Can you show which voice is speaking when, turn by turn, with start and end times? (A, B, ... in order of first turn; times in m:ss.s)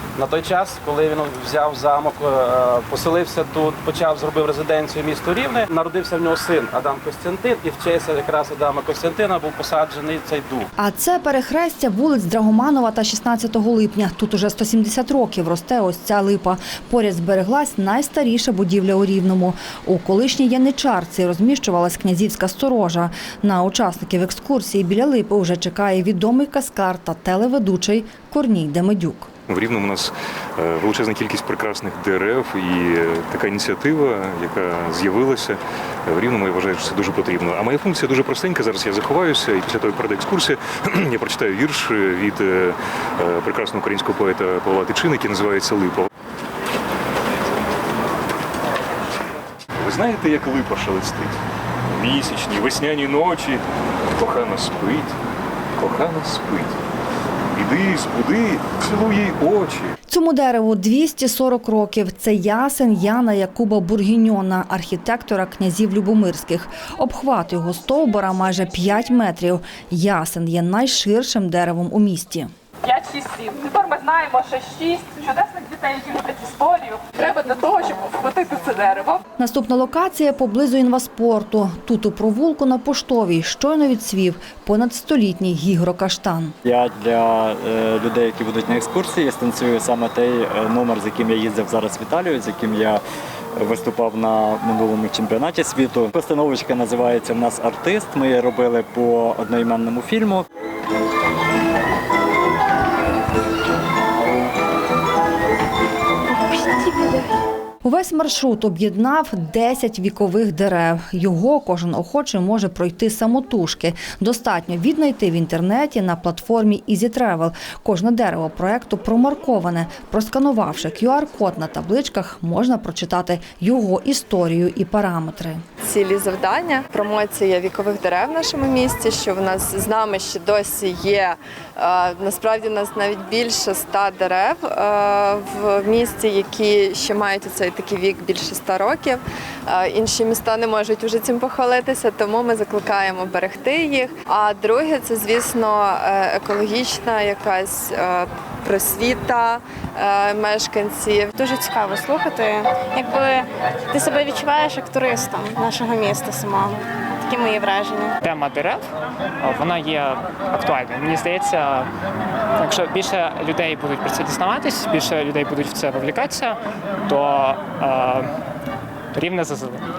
0:00.2-0:10.7 A
0:10.8-0:29.3 B
0:29.5-0:46.1 C
0:49.8-0:55.1 C
0:55.8-0:56.8 C
0:57.5-0:59.9 C
1:00.1-1:12.5 B
1:12.8-1:19.2 D
1:19.4-1:26.5 B
1:26.6-1:33.0 E
1:33.6-1:40.4 E
1:47.8-2:05.6 B
2:05.8-2:31.4 F
2:31.4-2:38.2 G
2:38.2-2:38.8 H
2:39.4-2:41.9 H
2:42.6-2:48.3 H
2:49.1-2:49.8 H